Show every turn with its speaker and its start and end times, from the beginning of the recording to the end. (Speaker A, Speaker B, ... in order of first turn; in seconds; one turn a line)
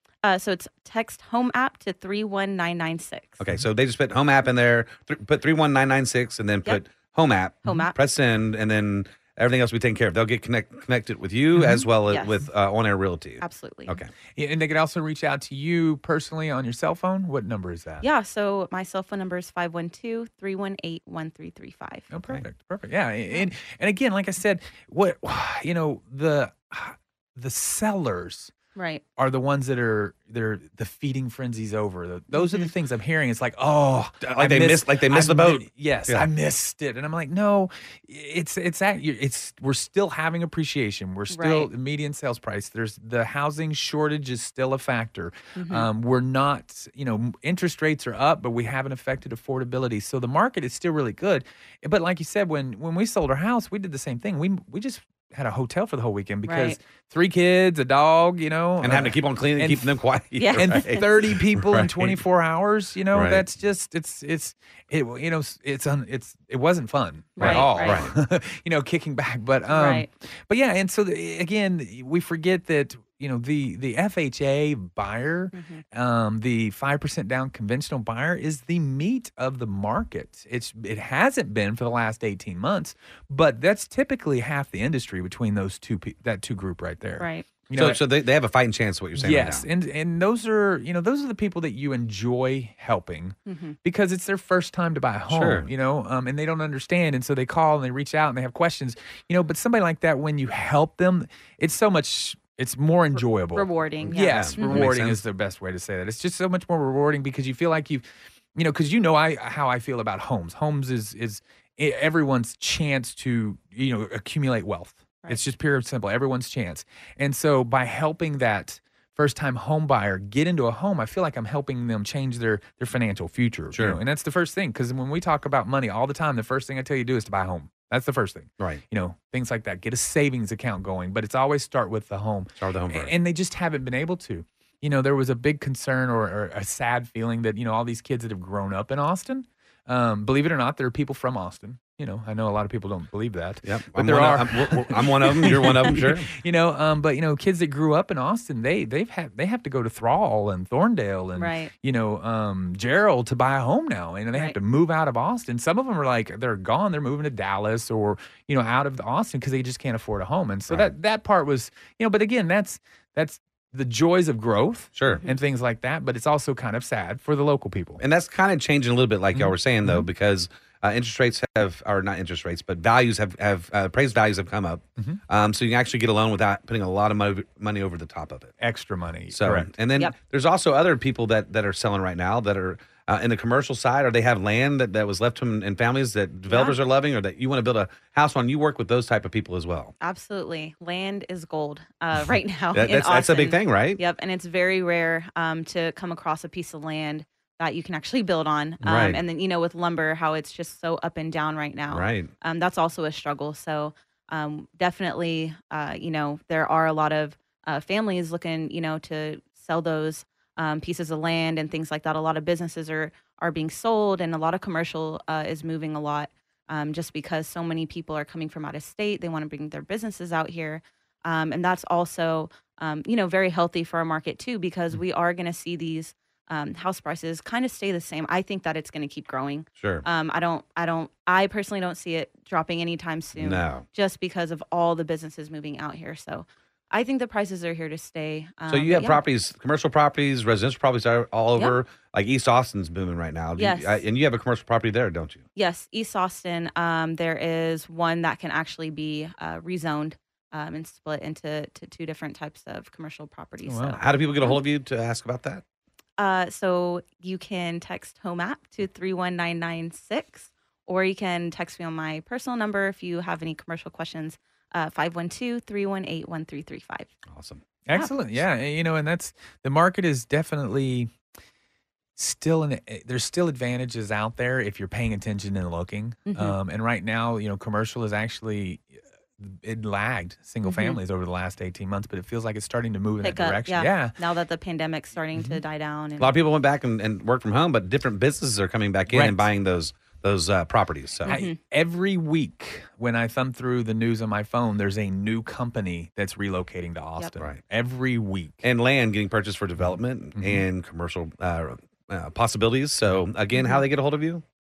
Speaker A: 0.2-3.4
Speaker B: 3.4-14.1
Speaker A: 7.7-8.0
Speaker C: 11.6-11.9
Speaker A: 12.1-12.4
Speaker A: 13.4-14.0
Speaker C: 14.4-18.1
Speaker A: 18.0-22.1
Speaker C: 22.1-28.5
Speaker A: 28.8-29.0
Speaker C: 29.2-59.9
Speaker A: 32.3-32.7
Speaker B: 34.2-36.3
Speaker A: 41.3-41.7
Speaker A: 45.6-45.9
Speaker A: 56.5-56.8
Speaker B: 58.8-62.2
Speaker A: 60.4-61.1
Speaker C: 60.5-88.0
Speaker B: 63.1-63.5
Speaker A: 67.4-68.0
Speaker B: 67.4-68.2
Speaker A: 69.7-70.1
Speaker A: 75.5-75.8
Speaker A: 87.2-87.5
Speaker B: 87.8-89.7
Speaker C: 89.2-168.0
Speaker A: 93.5-93.8
Speaker B: 95.3-95.7
Speaker A: 103.5-104.9
Speaker B: 104.1-105.2
Speaker B: 123.7-124.0
Speaker B: 132.6-133.1
Speaker B: 143.6-146.3
Speaker A: 151.4-151.7
Speaker B: 165.0-165.2
Speaker B: 168.0-178.5
Speaker C: 169.3-170.1
Speaker C: 178.6-179.7
Speaker B: 179.3-189.9
Speaker A: 186.5-186.8
Speaker A: 190.0-239.2
Speaker B: 192.7-194.0
Speaker B: 198.8-199.2
Speaker B: 201.9-202.3
Speaker B: 229.8-230.1
Speaker B: 233.4-233.8
Speaker B: 238.7-245.4
Speaker A: 243.6-244.0
Speaker A: 245.6-254.6
Speaker C: 253.7-254.0
Speaker B: 254.0-255.6
Speaker A: 256.2-267.1
Speaker B: 267.3-267.6
Speaker C: 267.9-271.1
Speaker C: 272.2-284.2
Speaker A: 276.3-276.6
Speaker A: 280.6-281.0
Speaker A: 283.2-286.3
Speaker C: 285.4-285.6
Speaker B: 286.2-291.4
Speaker C: 289.1-289.5
Speaker A: 291.3-291.6
Speaker C: 291.3-298.6
Speaker B: 298.6-304.4
Speaker C: 300.4-300.6
Speaker A: 303.5-303.8